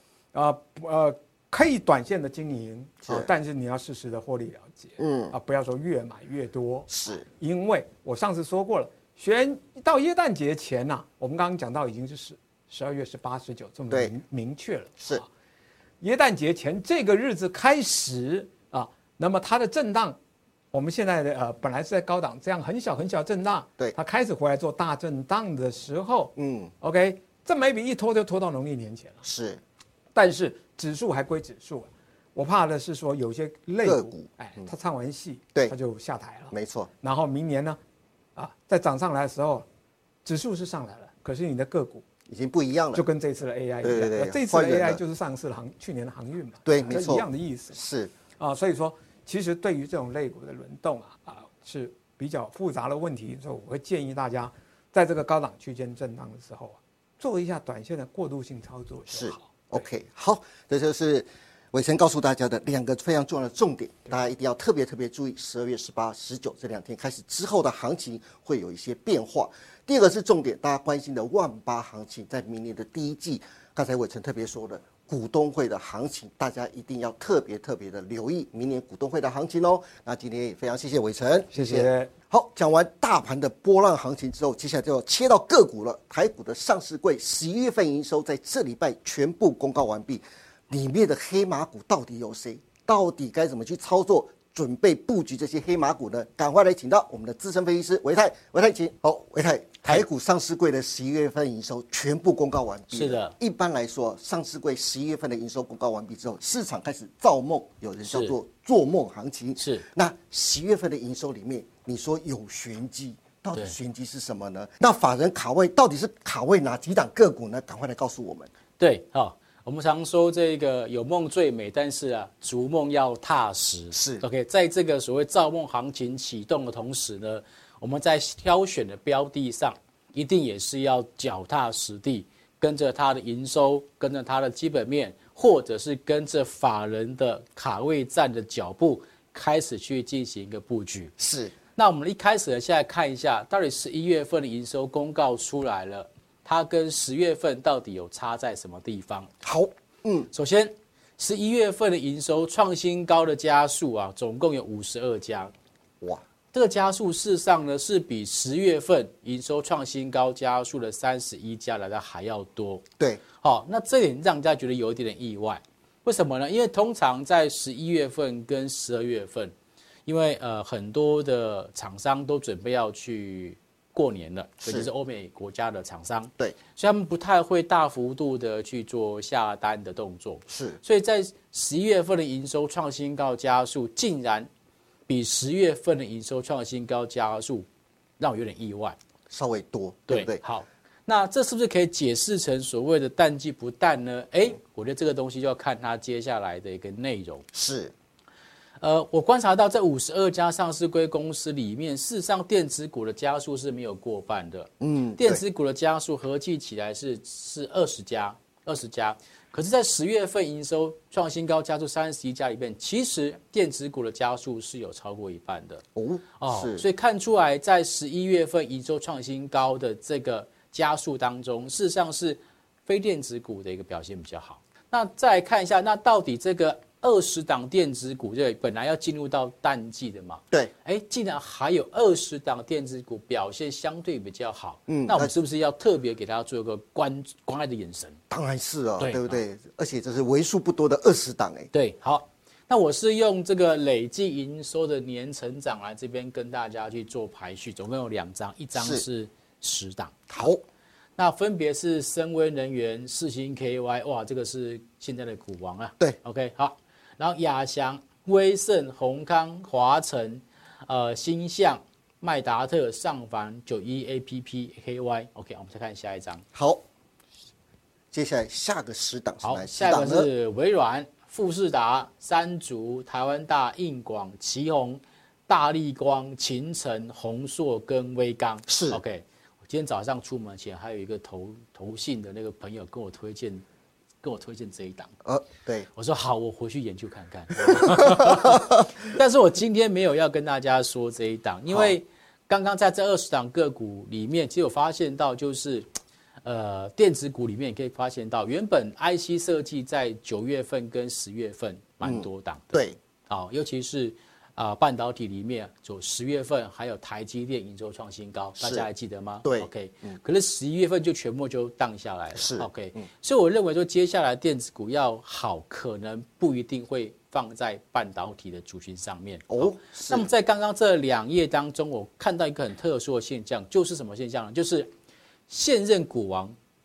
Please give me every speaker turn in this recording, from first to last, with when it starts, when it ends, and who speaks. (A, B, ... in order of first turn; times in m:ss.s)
0:00.3-0:15.3 A
0:05.0-0:05.3 B
0:06.9-0:07.2 B
0:16.0-0:20.2 A
0:20.7-0:29.2 A
0:26.4-0:26.7 B
0:29.2-0:29.6 B
0:30.1-0:37.8 A
0:33.8-0:34.7 B
0:36.5-0:36.9 B
0:38.4-0:39.6 A
0:40.2-0:42.0 A
0:42.3-0:43.0 B
0:42.9-0:47.8 A
0:43.8-0:45.0 B
0:46.6-0:48.1 B
0:48.4-0:59.8 A
0:59.1-1:58.5 B
1:21.5-1:22.1 A
1:42.9-1:43.3 C
1:48.1-1:48.4 C
1:49.6-1:49.8 C
1:58.8-2:21.1 C
2:03.9-2:04.2 B
2:21.2-2:21.5 B
2:21.8-2:29.3 C
2:29.4-2:30.3 B
2:30.3-2:35.5 C
2:36.5-2:42.8 C
2:43.4-2:49.5 C
2:50.0-3:04.5 C
2:54.6-2:54.9 B
3:00.5-3:00.8 B
3:05.1-3:07.6 C
3:08.2-3:09.0 C
3:09.3-3:10.4 B
3:10.1-3:17.4 C
3:17.5-3:17.9 B
3:18.8-3:35.8 C
3:24.8-3:25.4 B
3:36.0-3:36.8 B
3:36.4-3:58.2 C
3:54.9-3:55.3 B
3:58.3-4:01.7 B
3:59.0-3:59.4 C
4:01.7-4:10.2 C
4:08.7-4:09.0 B
4:10.3-4:10.6 B
4:11.2-4:26.4 C
4:26.5-4:26.8 B
4:28.1-4:30.3 B
4:29.4-4:43.6 C
4:38.7-4:39.0 B
4:44.2-4:45.1 C
4:45.2-4:45.9 B
4:46.0-4:55.9 C
4:47.7-4:48.8 B
4:51.7-4:51.9 B
4:56.4-5:24.9 C
5:02.0-5:03.0 B
5:08.6-5:08.9 B
5:09.4-5:10.2 B
5:12.3-5:13.0 B
5:19.5-5:20.3 B
5:25.5-5:26.5 C